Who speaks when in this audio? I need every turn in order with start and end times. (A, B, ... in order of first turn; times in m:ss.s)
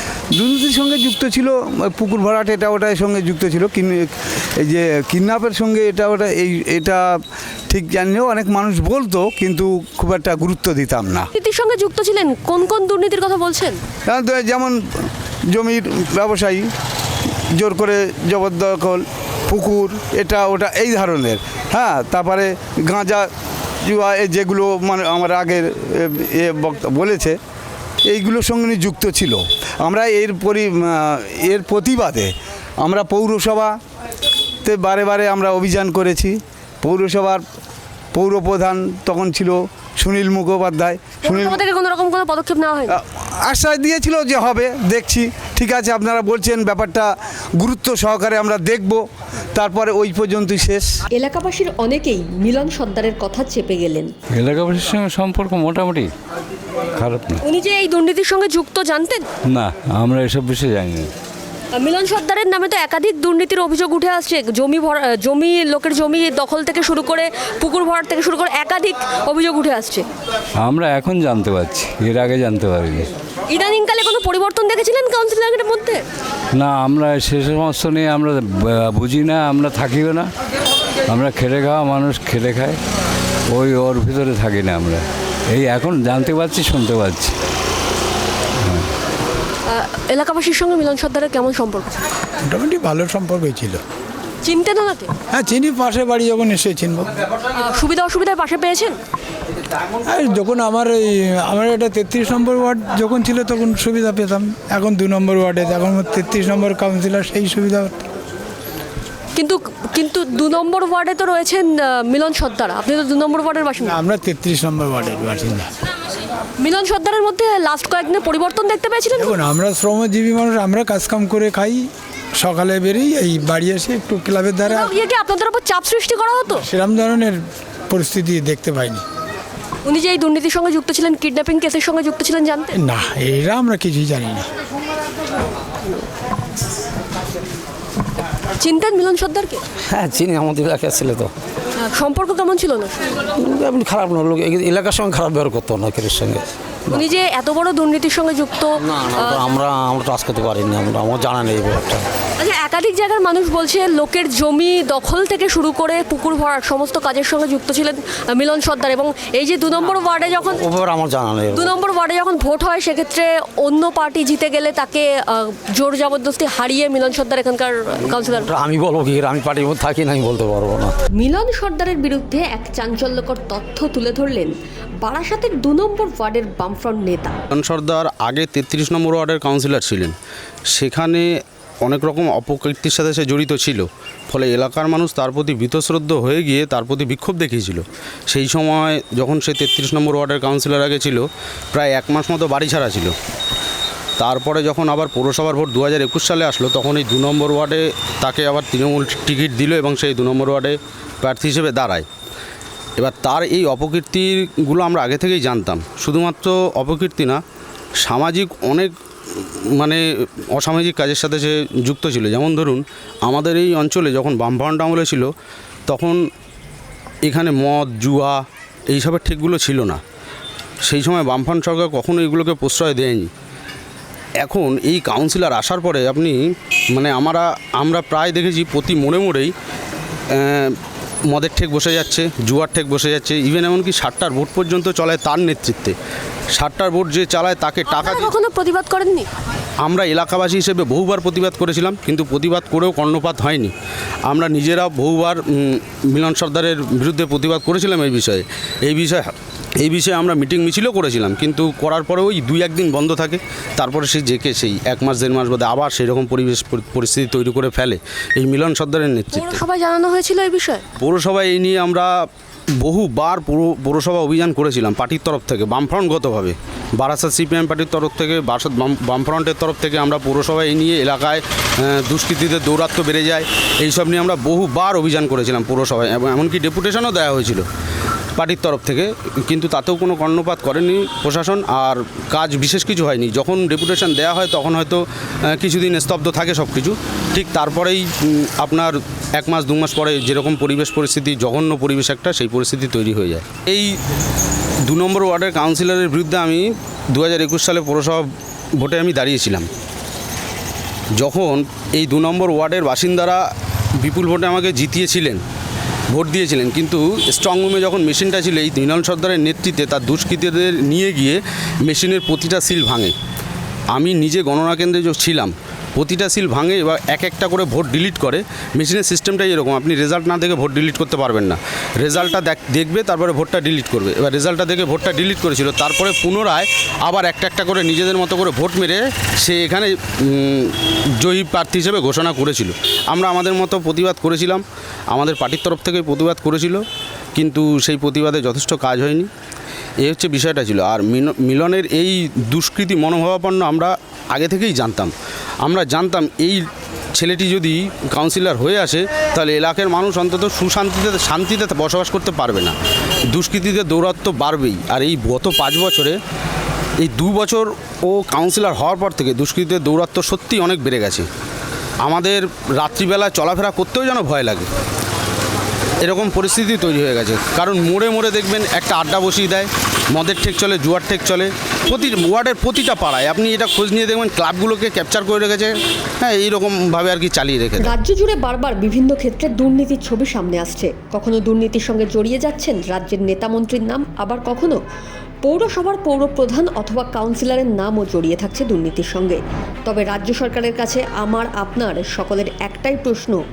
0:00.3-0:07.1 A
0:07.7-0:11.3 A
0:11.4-0:13.8 B
0:14.1-0:16.7 A
0:17.5-0:23.3 A
0:23.8-0:27.4 A
0:28.0-0:33.8 A
0:34.6-0:37.4 A
0:38.1-0:41.6 A
0:41.2-0:43.0 B
0:42.9-0:50.9 A
0:51.1-0:54.1 B
0:54.3-0:56.1 C
0:57.0-0:57.4 C
0:57.4-0:59.2 B
0:59.5-1:01.1 C
1:01.8-1:10.0 B
1:10.6-1:13.1 C
1:13.5-1:16.0 B
1:16.6-1:20.3 C
1:21.1-1:22.8 C
1:23.5-1:27.4 C
1:29.7-1:32.0 B
1:32.5-1:33.8 D
1:34.4-1:35.1 B
1:35.3-1:37.1 D
1:37.5-1:39.0 B
1:40.0-1:48.0 D
1:49.4-1:54.0 B
1:53.9-1:55.7 D
1:56.6-1:59.3 B
1:59.2-2:04.9 D
2:04.7-2:06.7 B
2:06.7-2:09.0 D
2:09.8-2:12.7 B
2:12.8-2:14.5 D
2:18.6-2:19.6 B
2:19.9-2:21.3 E
2:21.8-2:23.1 B
2:23.3-2:27.0 E
2:26.9-2:29.4 B
2:28.8-2:32.1 E
2:32.4-2:40.7 B
2:40.5-2:41.8 E
2:41.5-2:48.5 B
2:48.4-2:50.9 E
2:51.2-2:57.4 B
2:57.5-3:00.1 F
3:00.7-3:01.3 F
3:01.8-3:13.1 F
3:14.2-3:22.1 F
3:23.0-3:27.4 F
3:28.0-3:30.0 F
3:30.5-3:35.3 F
3:35.9-3:36.2 F
3:37.2-3:40.0 F
3:40.8-3:43.3 F
3:44.4-3:46.4 F
3:46.9-3:49.5 F
3:50.3-3:50.8 F
3:51.3-3:56.0 F
3:56.5-3:58.3 F
3:57.9-3:59.3 B
3:59.8-4:03.7 F
4:04.3-4:09.3 F
4:09.8-4:19.6 F
4:19.3-4:20.8 B
4:21.0-4:22.1 F
4:22.8-4:37.6 F
4:38.4-4:53.9 F
4:54.9-4:59.7 F
5:01.2-5:03.4 F
5:04.0-5:05.4 F
5:06.1-5:13.1 F
5:13.9-5:36.8 F
5:37.4-5:39.3 F
5:40.0-5:52.8 F
5:53.3-5:56.2 F
5:57.0-6:01.3 F
6:02.0-6:04.7 F
6:06.0-6:17.9 F
6:17.8-6:24.8 B
6:25.4-6:33.4 B